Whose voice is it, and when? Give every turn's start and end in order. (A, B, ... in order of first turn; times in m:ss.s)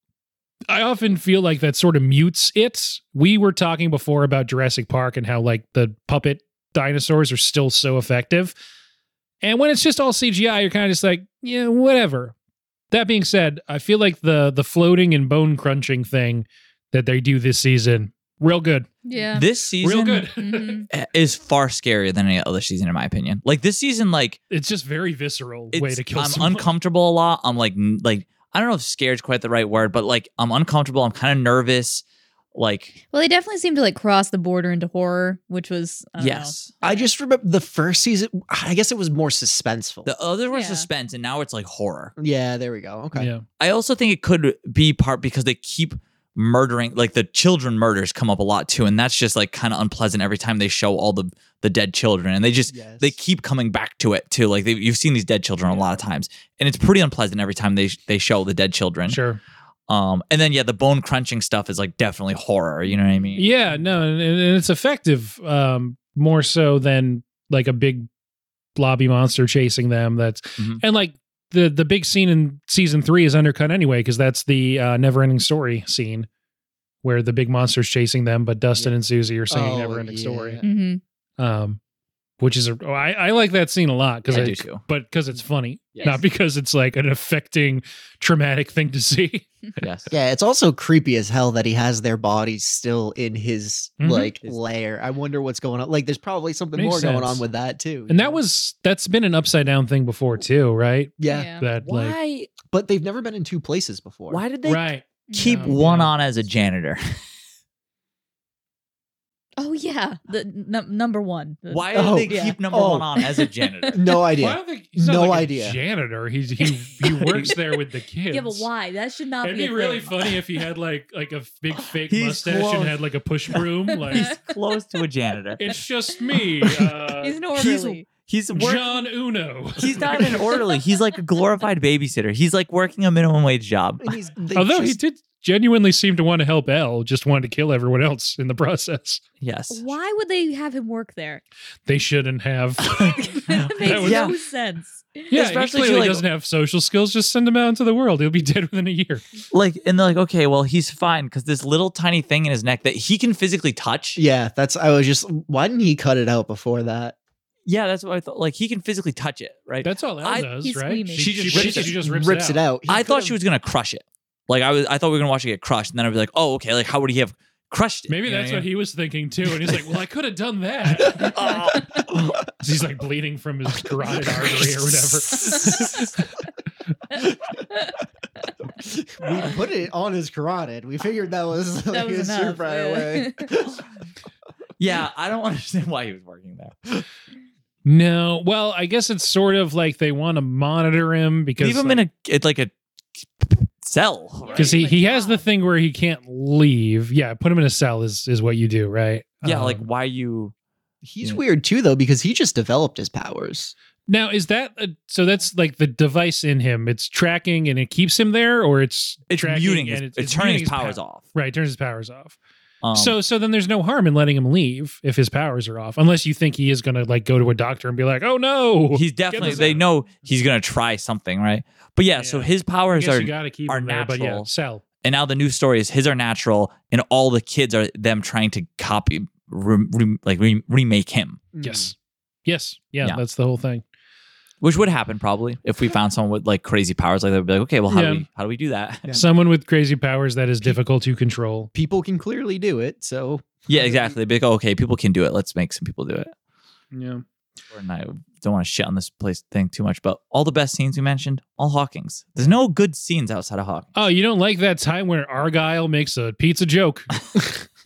0:00.7-0:08.5 A
0:09.4-0:12.4 A
0:12.9-0:18.9 A
0:19.0-0:19.5 B
0:19.3-0:20.3 C
0:19.8-0:20.9 A
0:20.4-0:20.9 B
0:20.9-0:24.4 C
0:24.5-0:26.7 A
0:25.7-0:32.0 C
0:32.6-0:33.0 C
0:33.1-0:37.1 B
0:36.2-0:36.7 C
0:36.8-0:40.1 D
0:40.0-0:42.1 C
0:40.5-0:40.9 B
0:42.2-0:43.3 D
0:43.2-0:43.4 A
0:43.6-0:59.2 C
0:52.7-0:53.2 D
0:59.1-0:59.4 A
0:59.9-1:03.5 C
1:03.4-1:08.1 A
1:08.8-1:16.3 A
1:17.0-1:20.6 A
1:19.5-1:20.6 D
1:20.6-1:21.0 B
1:21.4-1:21.8 A
1:22.4-1:29.5 A
1:24.3-1:24.8 C
1:26.0-1:26.2 C
1:29.8-1:30.1 C
1:30.1-1:38.4 D
1:34.0-1:34.3 A
1:36.8-1:37.4 A
1:38.1-1:42.2 A
1:41.2-1:41.5 D
1:41.3-1:41.7 B
1:41.8-1:42.5 C
1:42.7-1:44.4 D
1:44.3-1:47.2 C
1:44.6-1:46.1 A
1:45.3-1:45.8 B
1:49.6-1:52.6 B
1:51.7-1:54.0 C
1:51.9-1:53.1 D
1:53.2-1:54.2 B
1:53.9-1:55.8 D
1:54.4-1:58.7 A
1:58.3-2:00.3 B
1:59.4-2:04.4 A
2:02.0-2:03.0 C
2:04.1-2:04.4 B
2:04.1-2:05.6 C
2:05.6-2:07.4 A
2:07.2-2:08.1 B
2:07.6-2:09.0 C
2:08.5-2:10.4 A
2:09.8-2:14.1 C
2:10.0-2:11.0 B
2:14.0-2:15.0 D
2:14.5-2:19.2 A
2:19.4-2:19.9 C
2:19.7-2:21.4 B
2:21.9-2:23.1 A
2:22.9-2:23.2 C
2:22.9-2:25.3 B
2:23.8-2:24.3 A
2:23.8-2:24.4 C
2:25.3-2:26.2 C
2:25.3-2:29.2 A
2:29.5-2:34.2 C
2:34.2-2:37.2 D
2:37.7-2:40.5 C
2:39.8-2:42.6 A
2:40.6-2:41.8 B
2:41.1-2:42.0 C
2:41.7-2:43.4 D
2:42.9-2:48.7 C
2:48.1-2:51.3 A
2:51.0-2:52.4 C
2:51.4-2:51.8 B
2:52.6-2:56.1 A
2:55.5-2:55.9 B
2:55.6-2:56.1 D
2:58.8-3:03.8 D
3:01.9-3:03.5 B
3:04.8-3:06.9 C
3:07.8-3:12.0 A
3:11.6-3:14.8 C
3:14.4-3:15.5 B
3:14.6-3:19.8 A
3:19.4-3:20.5 C
3:21.0-3:23.7 D
3:24.1-3:32.4 A
3:29.3-3:31.2 C
3:32.8-3:33.2 C
3:32.9-3:39.8 A
3:38.9-3:44.5 C
3:39.4-3:39.8 D
3:42.2-3:44.8 A
3:45.0-3:51.4 C
3:51.5-3:51.9 D
3:51.6-3:52.0 A
3:52.5-3:53.8 A
3:54.6-3:59.2 C
3:57.9-3:58.2 A
3:59.1-4:01.7 A
4:01.7-4:04.1 D
4:03.7-4:06.3 C
4:06.9-4:07.2 A
4:07.7-4:13.9 C
4:14.0-4:17.1 A